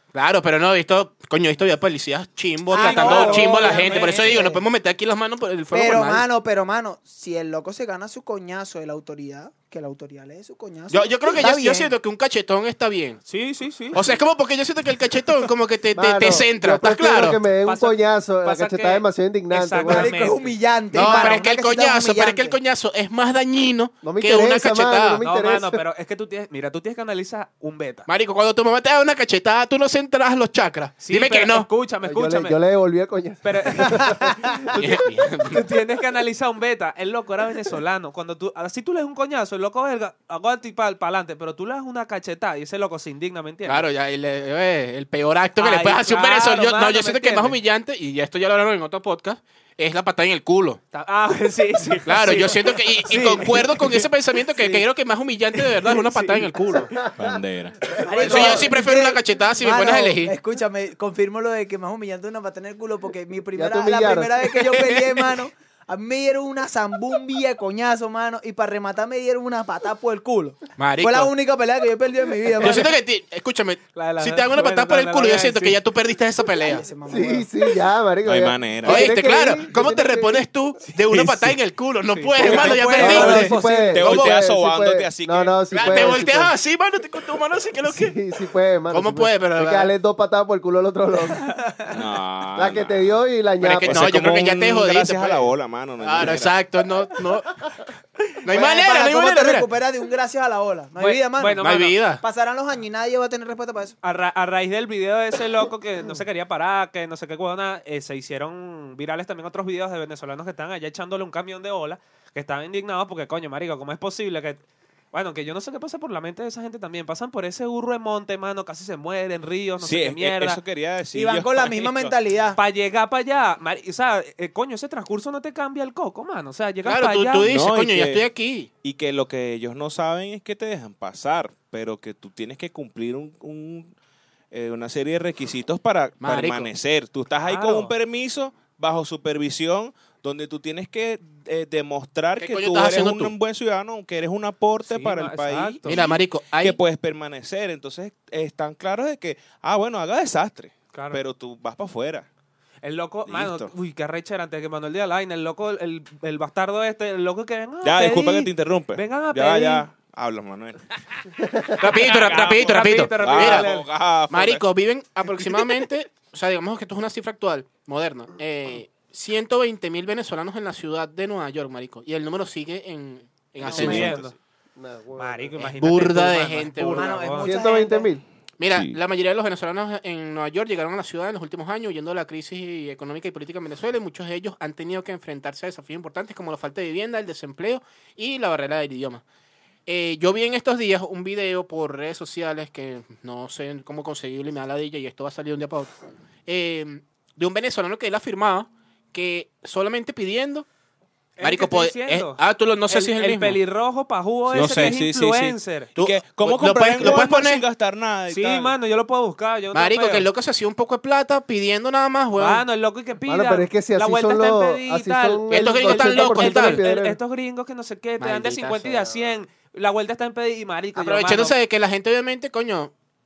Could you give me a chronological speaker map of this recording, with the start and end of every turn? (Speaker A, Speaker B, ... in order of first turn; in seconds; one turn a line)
Speaker A: 0.1-6.2
Speaker B: 2.7-4.6
Speaker C: 2.7-4.5
Speaker B: 5.7-11.9
Speaker A: 10.9-13.2
Speaker C: 13.3-14.2
Speaker A: 13.9-17.4
Speaker D: 15.9-20.1
Speaker C: 17.6-21.5
Speaker B: 19.8-22.6
Speaker A: 20.9-25.2
Speaker D: 24.0-25.8
Speaker C: 25.2-28.1
Speaker A: 28.1-31.7
Speaker C: 31.0-32.6
Speaker D: 32.0-34.9
Speaker C: 33.4-35.0
Speaker A: 34.7-35.6
Speaker C: 35.5-43.9
Speaker A: 43.7-50.8
Speaker C: 45.6-47.6
Speaker C: 50.9-54.8
Speaker A: 52.1-57.0
Speaker C: 55.6-56.5
Speaker D: 56.9-58.7
Speaker E: 57.1-57.8
Speaker B: 58.0-72.9
Speaker C: 58.2-58.6
Speaker A: 58.2-60.3
Speaker D: 63.5-64.8
Speaker A: 70.8-71.3
Speaker A: 72.6-76.8
Speaker C: 74.0-75.8
Speaker B: 76.7-77.5
Speaker D: 77.1-80.5
Speaker E: 78.2-79.2
Speaker A: 78.8-84.4
Speaker E: 81.1-81.5
Speaker C: 82.1-83.9
Speaker B: 82.4-83.8
Speaker D: 82.4-86.5
Speaker E: 82.9-86.2
Speaker A: 85.7-88.2
Speaker D: 87.9-91.5
Speaker A: 88.9-89.9
Speaker E: 91.9-93.0
Speaker D: 92.6-94.2
Speaker A: 93.6-97.7
Speaker E: 93.8-96.6
Speaker A: 98.4-99.7
Speaker B: 98.5-101.6
Speaker C: 101.0-102.0
Speaker A: 101.6-102.2
Speaker B: 102.2-104.0
Speaker C: 104.0-114.6
Speaker C: 115.1-120.6
Speaker E: 119.8-122.2
Speaker B: 121.1-122.6
Speaker C: 122.6-127.5
Speaker A: 126.8-128.7
Speaker E: 127.4-128.3
Speaker E: 128.8-133.9
Speaker E: 134.5-152.3
Speaker A: 136.2-136.7
Speaker C: 137.4-137.9
Speaker A: 142.4-143.3
Speaker C: 144.9-146.2
Speaker A: 145.8-146.8
Speaker C: 150.9-151.2
Speaker C: 152.8-159.8
Speaker E: 153.3-153.7
Speaker E: 157.8-161.2
Speaker D: 161.4-161.8
Speaker A: 161.8-163.7
Speaker C: 161.9-163.9
Speaker E: 161.9-164.7
Speaker A: 164.3-174.3
Speaker E: 165.4-165.8
Speaker C: 173.6-174.3
Speaker E: 173.6-174.2
Speaker B: 173.7-174.1
Speaker D: 174.8-175.7
Speaker C: 175.2-177.6
Speaker A: 175.8-177.2
Speaker B: 176.9-178.1
Speaker D: 177.4-178.2
Speaker A: 178.6-189.2
Speaker E: 178.7-179.0
Speaker A: 189.9-195.9
Speaker A: 196.5-200.7
Speaker C: 201.4-205.9
Speaker A: 201.4-203.6
Speaker E: 204.5-208.7
Speaker A: 204.5-205.0
Speaker A: 206.0-207.6
Speaker C: 208.3-210.3
Speaker A: 209.7-212.6
Speaker C: 212.4-221.6
Speaker D: 213.3-217.2
Speaker A: 215.5-216.8
Speaker A: 218.2-218.9
Speaker A: 221.0-222.9